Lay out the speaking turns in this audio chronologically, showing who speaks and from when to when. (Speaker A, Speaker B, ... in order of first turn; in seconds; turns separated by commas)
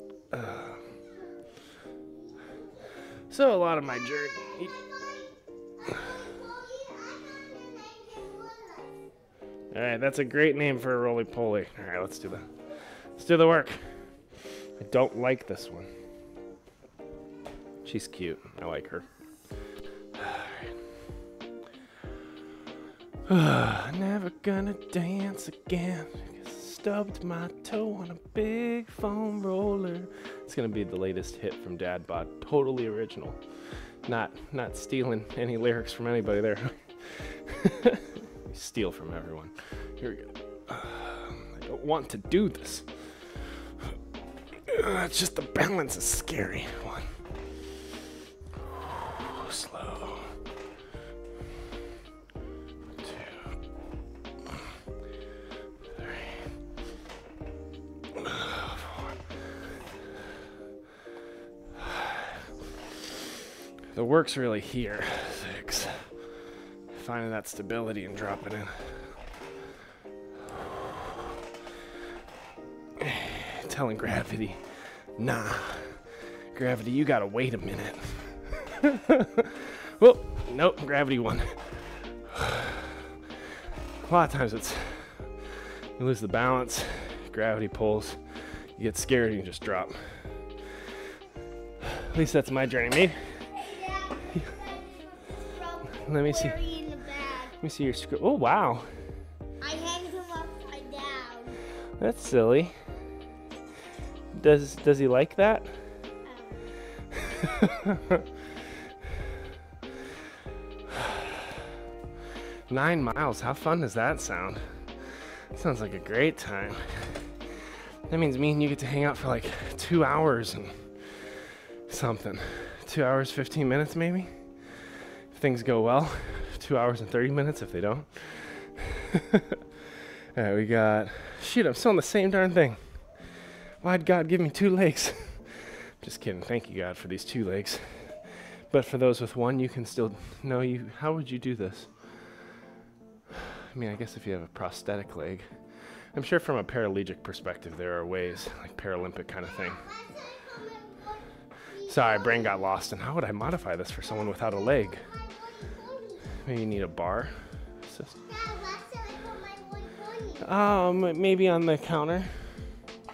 Speaker A: 0.3-0.8, Speaker B: 2.0-3.0, Speaker A: 3.3-4.7, Speaker B: 4.1-9.0, Speaker A: 9.7-12.5, Speaker A: 13.2-13.9, Speaker A: 14.8-15.9, Speaker A: 17.8-19.1, Speaker A: 20.1-20.7, Speaker A: 23.3-33.4, Speaker A: 34.0-43.9, Speaker A: 44.7-47.1, Speaker A: 48.7-50.3, Speaker A: 53.0-53.5, Speaker A: 55.9-56.5, Speaker A: 58.1-59.1, Speaker A: 61.8-62.2, Speaker A: 63.9-66.1, Speaker A: 66.9-69.0, Speaker A: 73.0-74.6, Speaker A: 75.2-83.0, Speaker A: 84.0-85.3, Speaker A: 86.0-88.2, Speaker A: 88.8-90.0, Speaker A: 91.8-93.2, Speaker B: 93.5-97.5, Speaker A: 96.0-96.6, Speaker A: 97.6-98.9, Speaker B: 99.6-101.6, Speaker A: 102.0-102.7, Speaker A: 104.3-105.7, Speaker B: 106.2-106.7, Speaker A: 107.3-108.2, Speaker A: 112.7-114.7, Speaker A: 115.5-117.3, Speaker A: 118.1-120.9, Speaker A: 121.9-124.3, Speaker A: 125.3-129.6, Speaker A: 130.3-132.8, Speaker A: 133.8-141.9, Speaker A: 143.7-145.4, Speaker A: 146.1-149.8, Speaker B: 149.4-152.6, Speaker A: 151.9-155.0, Speaker B: 154.8-156.4, Speaker A: 156.4-158.2, Speaker B: 158.2-160.5, Speaker A: 160.4-162.5